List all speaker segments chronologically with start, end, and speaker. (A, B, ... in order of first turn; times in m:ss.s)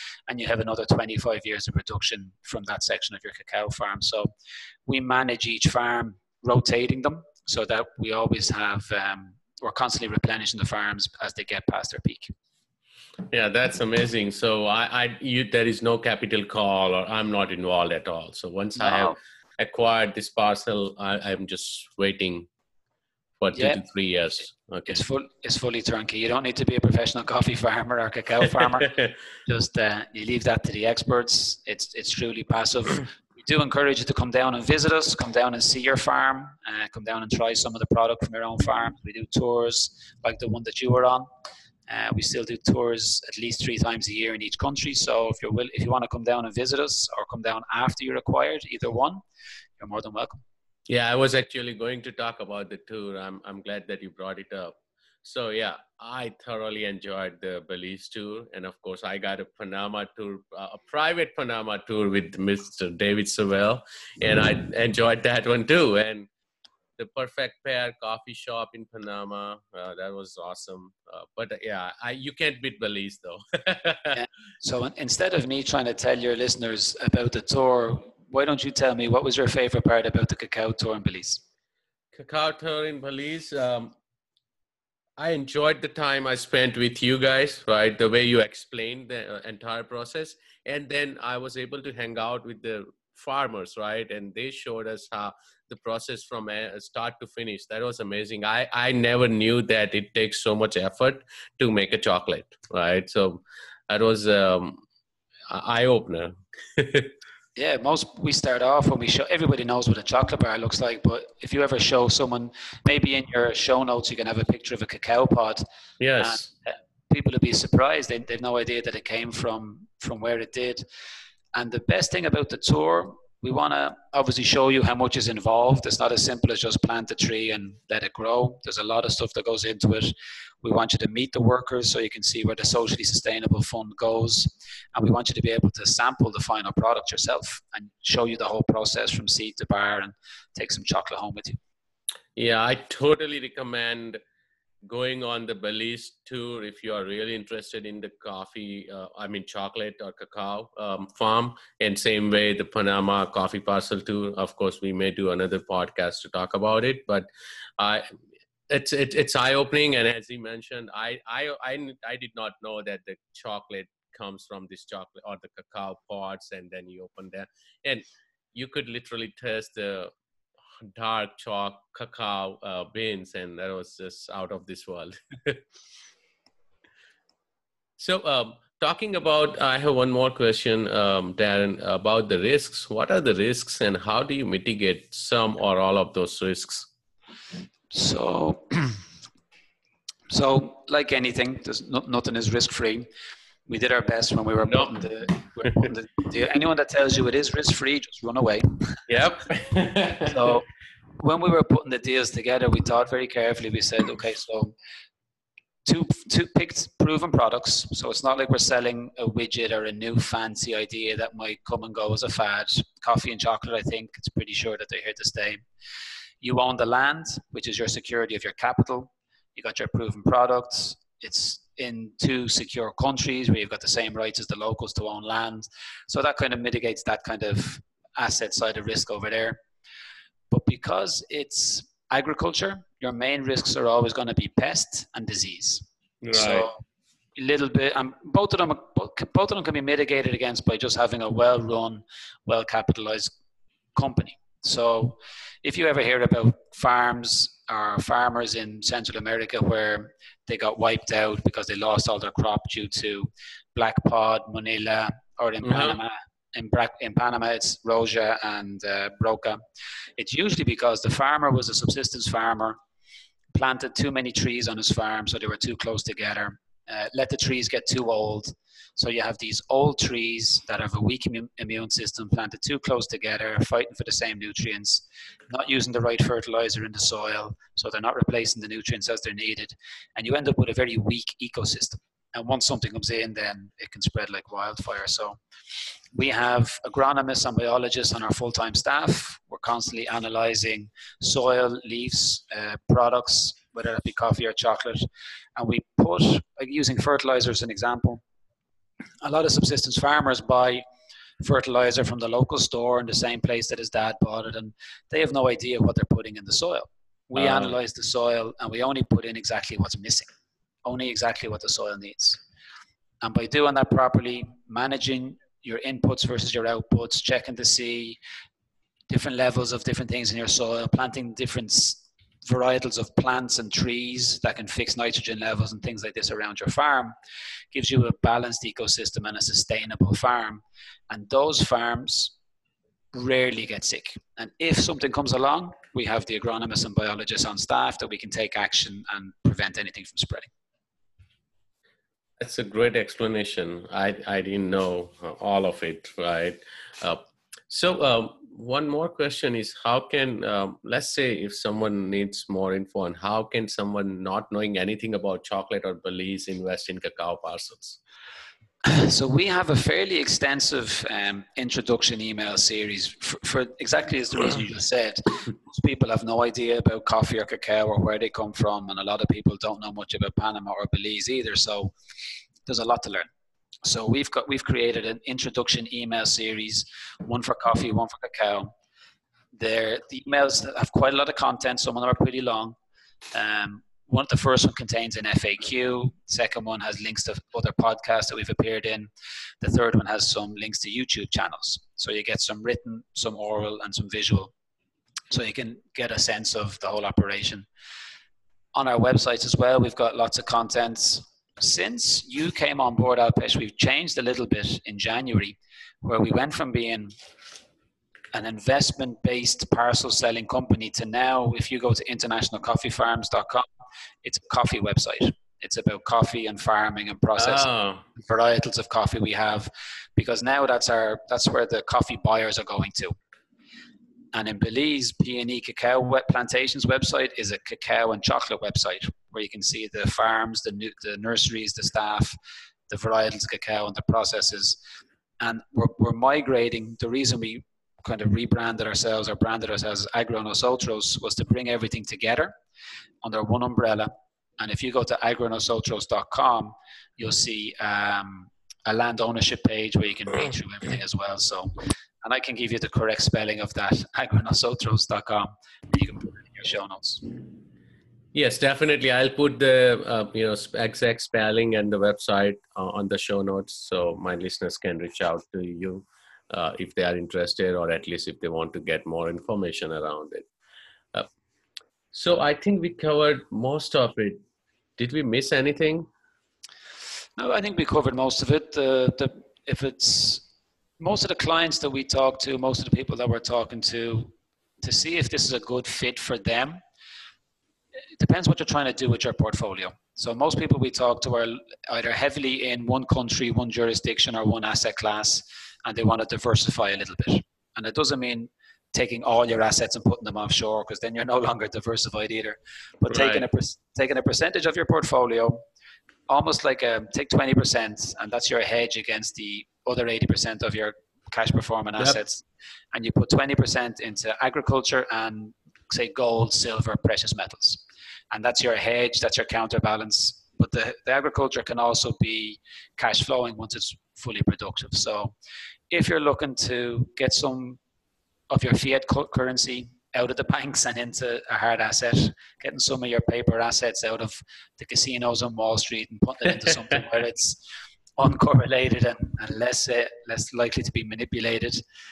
0:00.3-0:04.3 A
0:04.9-0:12.3 A
0:13.3-0:22.5 B
0:18.8-0:19.2 A
0:23.4-0:25.0 B
0:23.5-0:23.8 A
0:24.9-0:28.9 A
0:29.4-0:41.2 A
0:41.9-0:49.2 A
0:49.8-0:50.4 A
0:50.9-1:06.3 B
1:07.0-1:14.2 B
1:14.1-1:21.4 A
1:22.1-1:23.9 B
1:25.2-1:44.8 B
1:45.5-1:47.1 B
1:47.6-1:55.6 A
1:56.0-1:56.5 B
1:56.2-2:00.8 A
2:01.5-2:21.6 A
2:22.4-2:24.2 B
2:24.8-2:38.2 B
2:38.7-2:50.1 B
2:50.8-2:55.6 B
2:58.0-3:06.9 B
3:07.9-3:09.0 A
3:10.3-3:13.1 A
3:13.6-3:19.0 A
3:14.6-3:15.0 B
3:19.1-3:20.6 B
3:20.2-3:20.6 A
3:21.2-3:24.7 A
3:25.8-3:35.6 A
3:36.4-3:49.6 A
3:50.5-3:56.8 A
3:56.2-3:56.7 B
3:57.4-4:03.3 A
4:04.0-4:19.6 A
4:15.6-4:16.0 B
4:20.2-4:22.8 A
4:23.5-4:45.4 A
4:46.1-4:58.2 A
4:59.2-5:00.8 A
5:01.4-5:10.3 A
5:07.4-5:07.8 B
5:10.8-5:12.4 A
5:13.2-5:18.2 A
5:19.1-5:27.1 A
5:27.7-5:32.3 A
5:33.1-5:40.5 A
5:42.4-5:58.0 B
5:58.8-6:11.9 A
6:12.6-6:13.3 A
6:13.8-6:18.7 A
6:19.5-6:22.8 A
6:23.3-6:34.5 A
6:35.3-6:37.7 A
6:38.7-6:47.1 A
6:48.3-6:53.7 A
6:54.2-7:03.2 A
6:57.4-6:58.0 B
7:04.3-7:12.4 A
7:12.9-7:14.8 A
7:15.4-7:22.5 A
7:23.2-7:37.2 A
7:38.3-7:50.5 B
7:52.1-7:54.4 B
7:55.0-7:56.1 B
7:57.4-8:00.4 A
8:01.0-8:06.8 A
8:08.2-8:25.6 A
8:23.1-8:23.5 B
8:26.3-8:45.3 A
8:45.9-8:47.8 A
8:48.5-8:57.6 A
8:58.2-9:01.8 A